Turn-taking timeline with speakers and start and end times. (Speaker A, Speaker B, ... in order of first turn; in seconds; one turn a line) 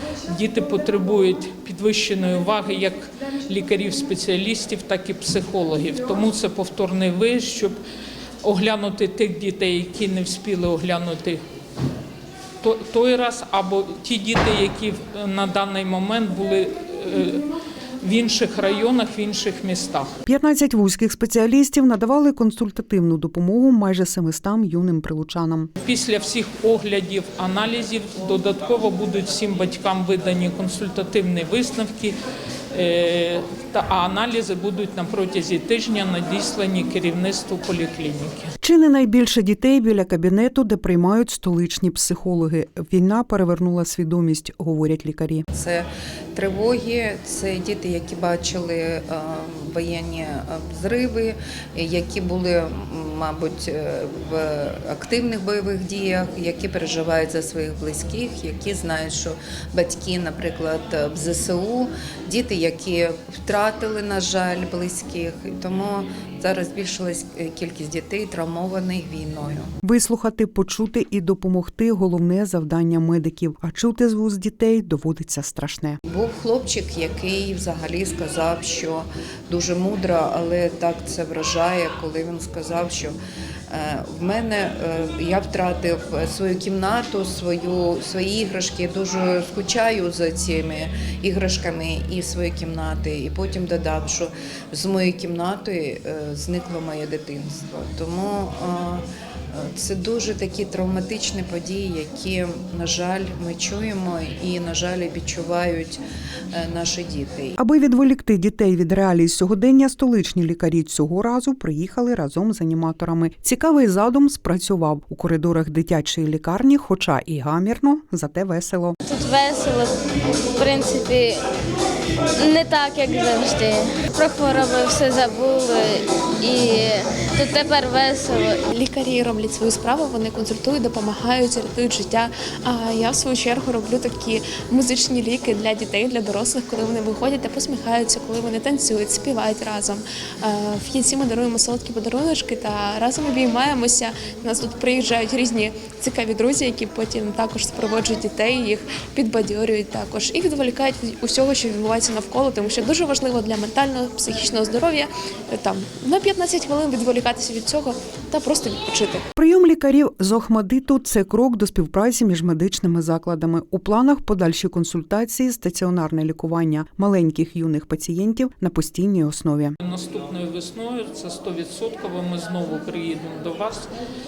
Speaker A: 0.3-7.8
Speaker A: 8.4-11.4
Speaker A: 12.6-17.4
Speaker A: 18.0-20.1
Speaker B: 20.2-25.7
Speaker A: 25.8-32.1
Speaker A: 32.7-38.5
Speaker B: 38.6-45.4
Speaker C: 45.5-69.7
Speaker B: 69.8-76.0
Speaker C: 76.1-83.2
Speaker C: 83.7-106.0
Speaker C: 106.5-107.6
Speaker B: 107.6-118.9
Speaker D: 119.0-119.9
Speaker D: 120.5-121.4
Speaker D: 122.4-128.6
Speaker E: 128.8-159.2
Speaker B: 159.3-169.7
Speaker A: 169.8-173.9